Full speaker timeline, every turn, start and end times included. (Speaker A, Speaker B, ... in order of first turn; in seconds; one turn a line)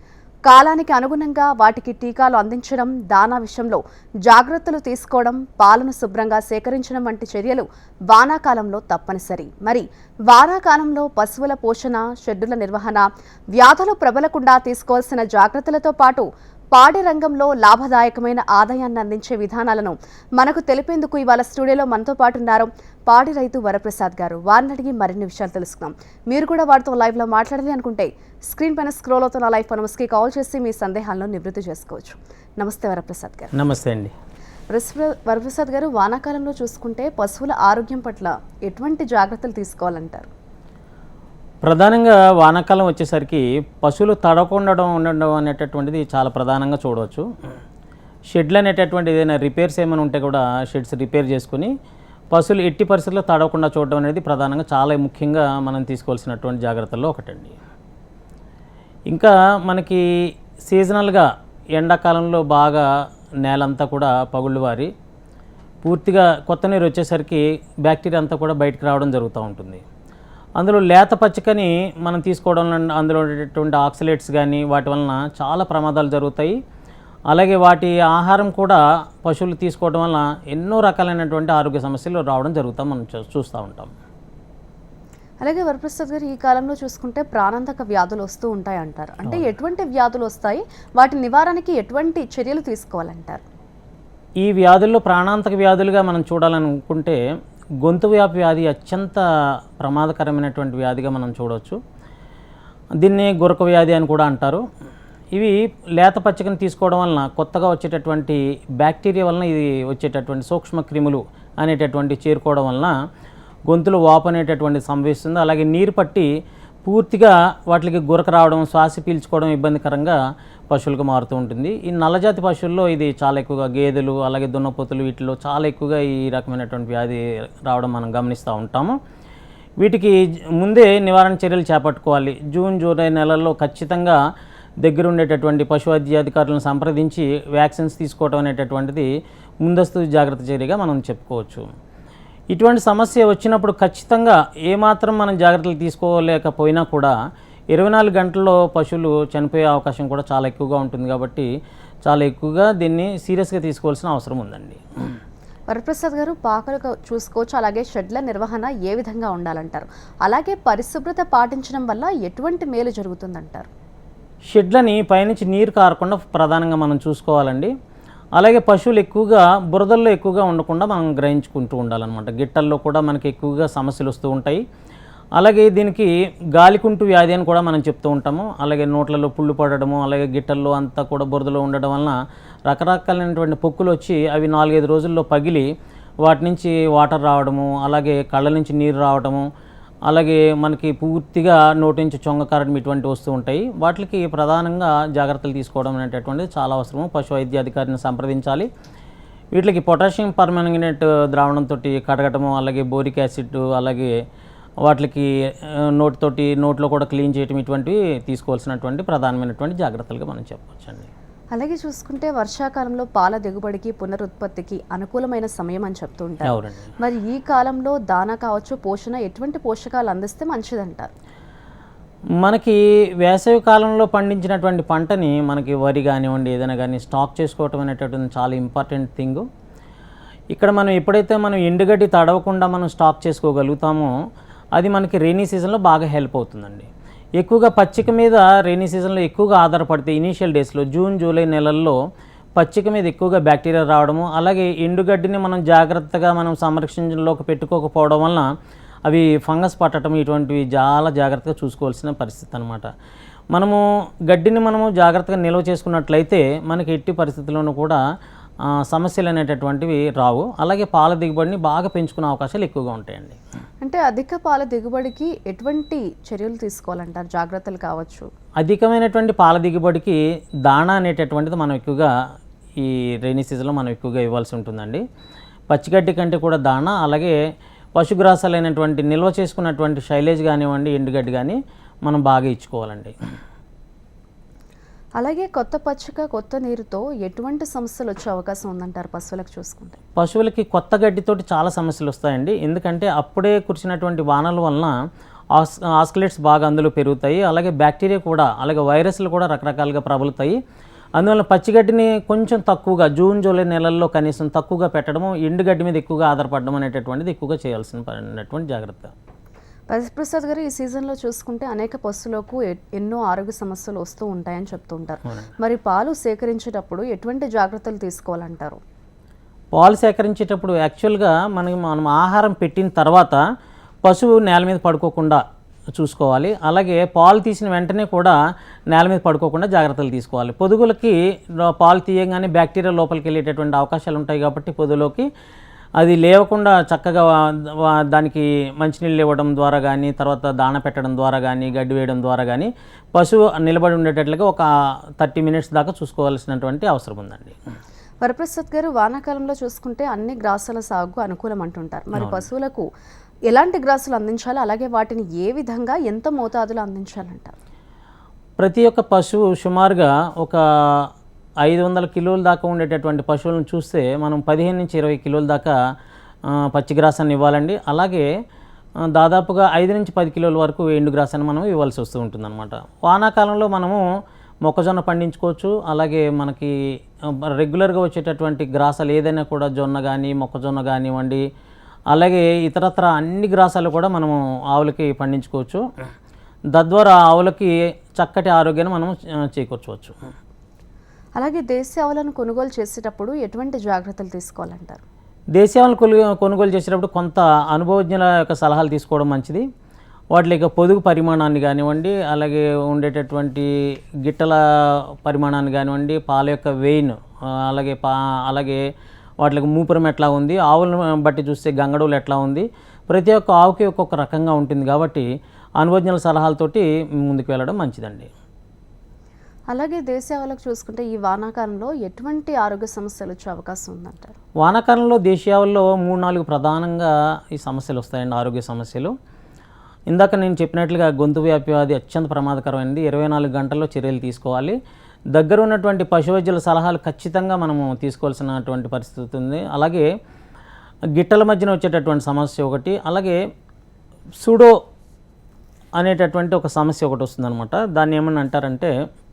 Speaker A: 0.5-33.5
Speaker B: 33.5-34.1
Speaker A: 34.7-40.3
Speaker B: 41.6-47.3
Speaker B: 48.3-51.7
Speaker B: 52.3-57.6
Speaker B: 59.1-60.0
Speaker B: 60.6-62.9
Speaker B: 63.4-64.9
Speaker B: 65.8-69.8
Speaker B: 70.6-76.6
Speaker B: 77.3-83.9
Speaker A: 85.4-93.4
Speaker B: 94.4-97.2
Speaker B: 97.8-99.2
Speaker B: 99.8-101.8
Speaker B: 103.0-104.6
Speaker B: 105.3-112.9
Speaker B: 113.7-116.3
Speaker B: 116.8-120.2
Speaker B: 120.7-129.0
Speaker B: 129.8-134.2
Speaker B: 134.8-139.1
Speaker B: 139.6-141.7
Speaker B: 142.5-147.1
Speaker B: 147.7-151.5
Speaker B: 152.1-155.2
Speaker A: 155.7-163.7
Speaker B: 164.5-167.7
Speaker B: 168.4-174.6
Speaker B: 175.4-182.1
Speaker B: 182.7-185.7
Speaker B: 186.2-189.5
Speaker B: 190.1-198.7
Speaker B: 199.6-204.1
Speaker B: 204.8-211.1
Speaker A: 211.5-221.1
Speaker B: 216.4-216.9
Speaker B: 222.4-229.4
Speaker B: 230.5-234.1
Speaker B: 234.8-242.0
Speaker B: 242.6-248.4
Speaker B: 249.1-252.9
Speaker B: 253.5-258.0
Speaker B: 258.8-263.4
Speaker A: 263.8-268.3
Speaker B: 268.6-272.1
Speaker B: 272.8-275.0
Speaker B: 275.7-277.4
Speaker B: 278.0-283.1
Speaker A: 285.2-290.0
Speaker B: 290.2-294.9
Speaker B: 295.5-300.6
Speaker B: 301.2-309.1
Speaker A: 309.9-318.8
Speaker B: 319.7-323.4
Speaker B: 324.0-325.4
Speaker B: 325.9-328.4
Speaker B: 328.9-335.3
Speaker B: 336.0-344.7
Speaker B: 345.2-347.6
Speaker A: 348.2-352.8
Speaker B: 352.2-352.4
Speaker A: 353.5-357.6
Speaker B: 358.6-361.1
Speaker B: 361.6-365.7
Speaker B: 366.5-368.3
Speaker B: 369.1-374.0
Speaker B: 374.7-376.7
Speaker B: 377.4-381.4
Speaker B: 382.1-385.8
Speaker B: 386.7-390.2
Speaker A: 391.4-395.0
Speaker B: 395.6-399.6
Speaker B: 400.3-403.7
Speaker B: 404.2-404.6
Speaker B: 405.2-408.8
Speaker B: 409.4-415.3
Speaker B: 415.8-418.3
Speaker A: 419.7-424.4
Speaker B: 424.6-429.1
Speaker B: 430.1-434.8
Speaker B: 435.3-440.1
Speaker B: 441.2-443.4
Speaker B: 444.4-444.7
Speaker B: 446.0-448.9